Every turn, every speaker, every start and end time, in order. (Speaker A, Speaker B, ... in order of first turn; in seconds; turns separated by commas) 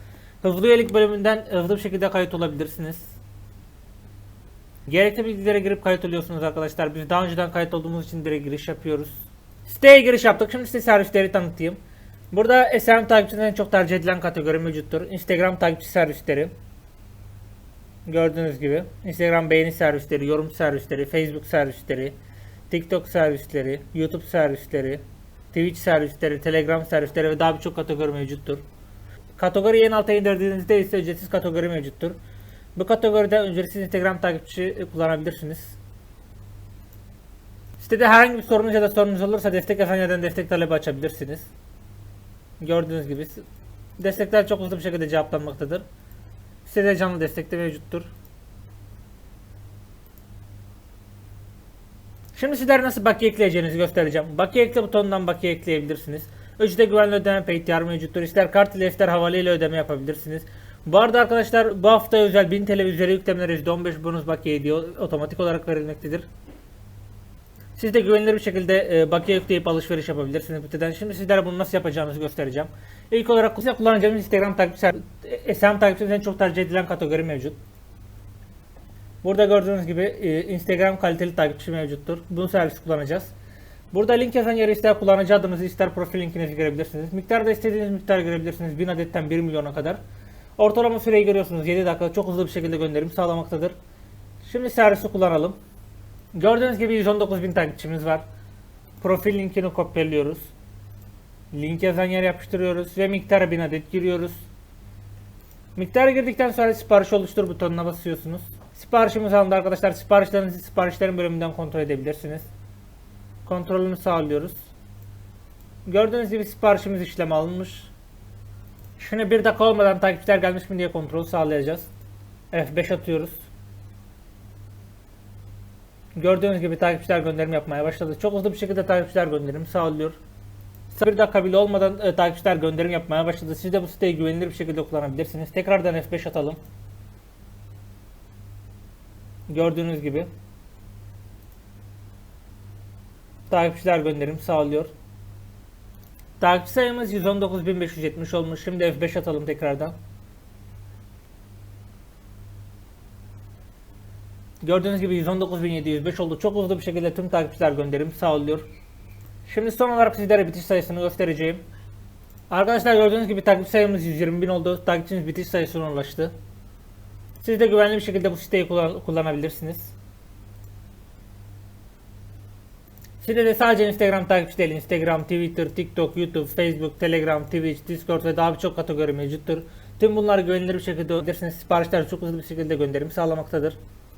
Speaker A: 0.4-3.1, Speaker A: 4.9-11.8, Speaker A: 12.3-16.5, Speaker A: 18.1-22.1, Speaker A: 22.7-28.6, Speaker A: 29.4-32.2, Speaker A: 32.7-35.8, Speaker A: 37.8-41.5, Speaker A: 42.6-43.4, Speaker A: 44.0-45.8, Speaker A: 46.6-48.1, Speaker A: 52.3-66.3, Speaker A: 67.8-77.6, Speaker A: 79.2-83.3, Speaker A: 83.9-90.0, Speaker A: 90.6-93.7, Speaker A: 94.4-95.6, Speaker A: 96.3-98.2, Speaker A: 99.0-100.5, Speaker A: 101.5-104.4, Speaker A: 105.8-112.5, Speaker A: 113.4-114.6, Speaker A: 115.8-117.9, Speaker A: 119.0-121.9, Speaker A: 122.5-123.4, Speaker A: 126.2-130.2, Speaker A: 130.9-136.6, Speaker A: 139.5-140.3, Speaker A: 143.5-144.9, Speaker A: 146.4-149.9, Speaker A: 154.6-158.7, Speaker A: 159.4-161.6, Speaker A: 162.5-166.3, Speaker A: 167.4-169.9, Speaker A: 173.2-183.8